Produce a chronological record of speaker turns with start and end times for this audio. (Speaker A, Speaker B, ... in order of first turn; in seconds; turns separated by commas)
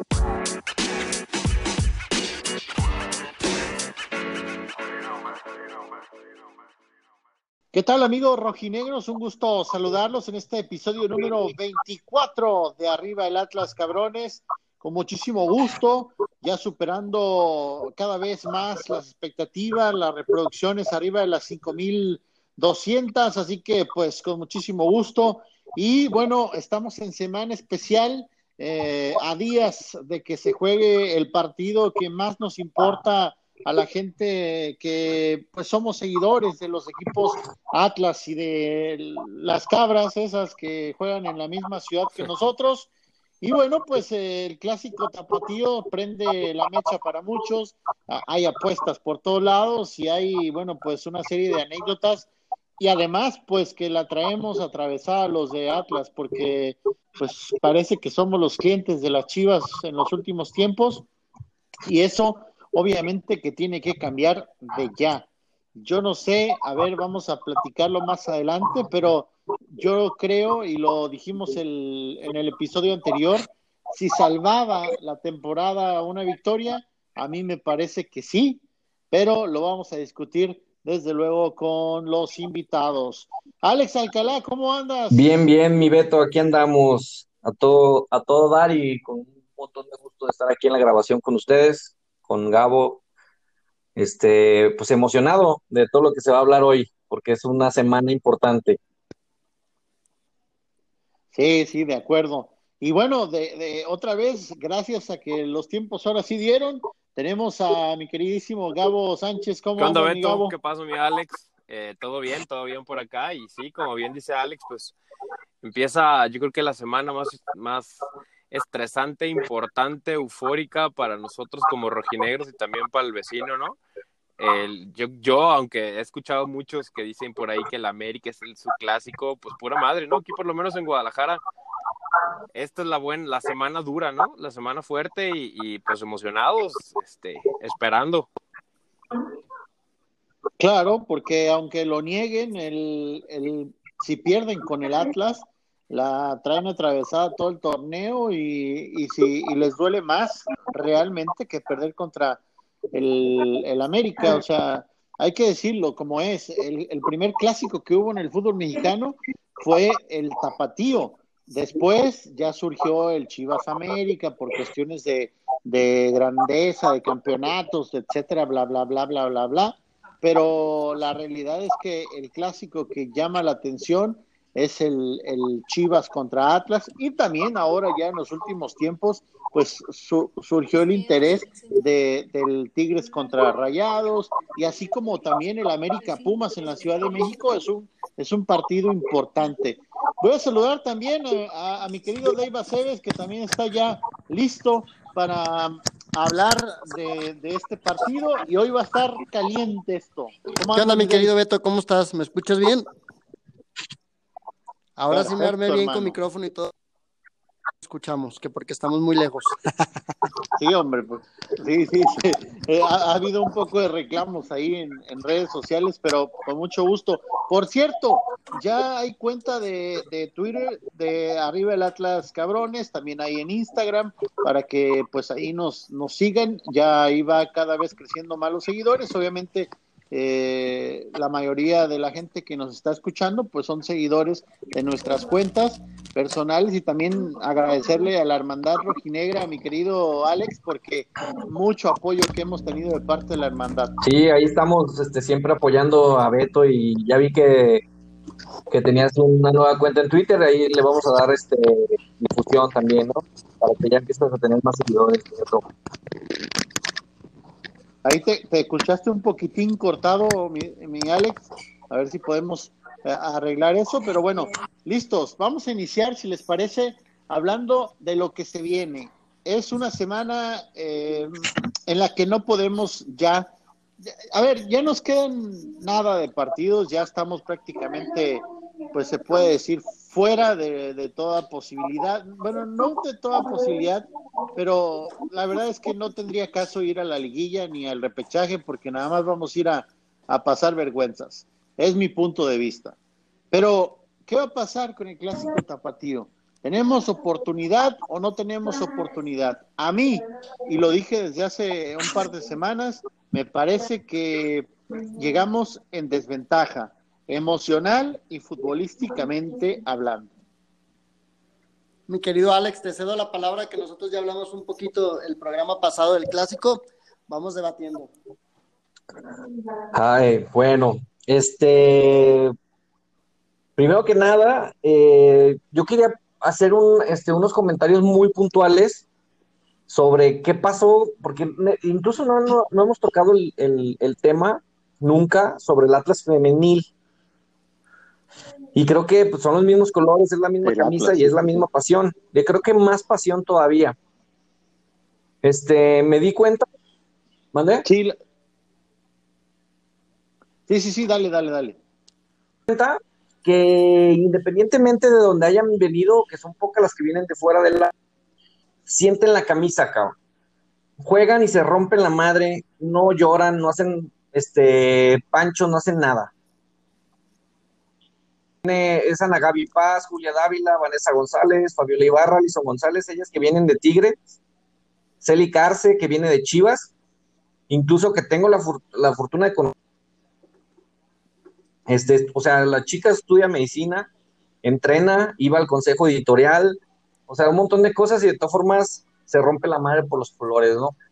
Speaker A: 7.7-42.9, Speaker A: 43.4-61.1, Speaker A: 61.9-85.3, Speaker B: 85.1-93.0, Speaker B: 94.0-98.8, Speaker A: 101.3-110.5, Speaker C: 109.8-115.0, Speaker C: 115.6-123.8, Speaker C: 124.4-131.4, Speaker C: 132.5-138.3, Speaker A: 140.6-152.4, Speaker A: 152.9-201.3, Speaker D: 200.7-202.9, Speaker D: 205.0-206.7, Speaker A: 205.1-206.2, Speaker D: 207.8-209.6, Speaker A: 210.6-243.9, Speaker B: 244.0-247.8, Speaker B: 248.7-255.7, Speaker A: 258.0-273.5, Speaker A: 274.1-293.0, Speaker A: 293.5-310.3, Speaker D: 312.1-318.1, Speaker B: 319.9-322.5, Speaker B: 323.8-329.1, Speaker B: 329.9-336.9, Speaker B: 338.8-344.0, Speaker A: 340.6-341.6, Speaker B: 345.4-346.6, Speaker B: 347.5-347.9, Speaker A: 347.8-348.2, Speaker A: 350.7-351.8, Speaker B: 352.7-357.9, Speaker B: 358.9-360.2, Speaker B: 361.0-366.3, Speaker B: 368.6-374.3, Speaker B: 375.2-376.9, Speaker B: 377.7-379.7, Speaker B: 381.9-384.1, Speaker B: 384.6-390.9